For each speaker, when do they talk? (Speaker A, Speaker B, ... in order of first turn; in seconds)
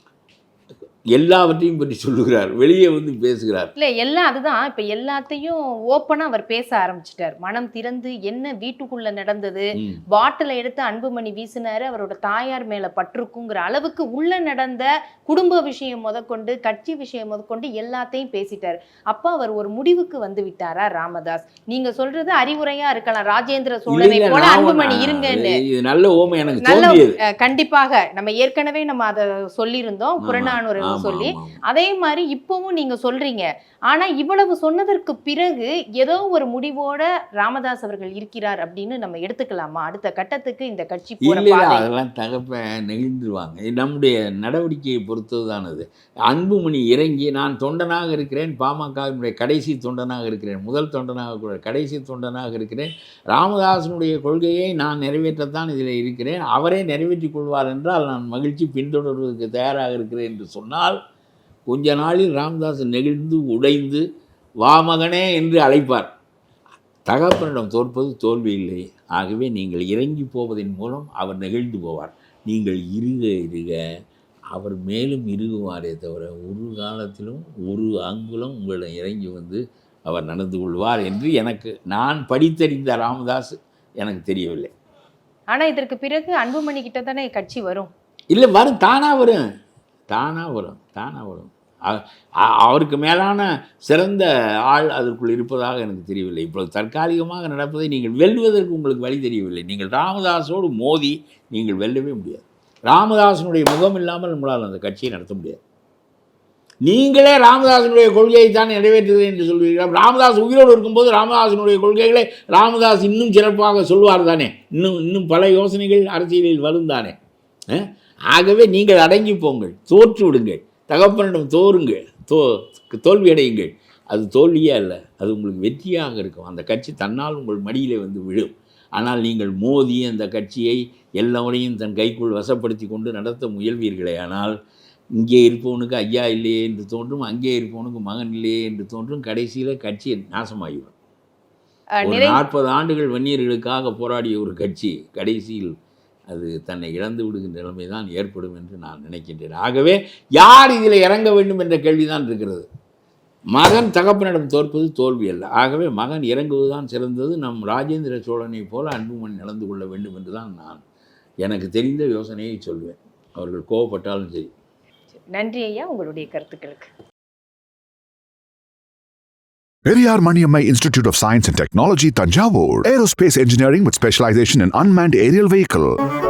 Speaker A: 1.1-3.7, 9.8-10.0, 23.9-27.2, 30.2-31.6, 41.2-61.0, 61.7-64.0, 64.6-66.1, 67.1-73.8, 74.5-84.7, 88.3-89.4, 90.1-105.6, 106.8-117.2, 117.7-134.5, 135.2-140.9, 142.0-145.7, 146.3-152.7, 153.5-160.8, 161.4-164.5
Speaker B: 3.8-25.6, 26.6-41.9, 85.5-87.9, 142.0-142.4, 165.3-166.9
Speaker C: 169.9-175.9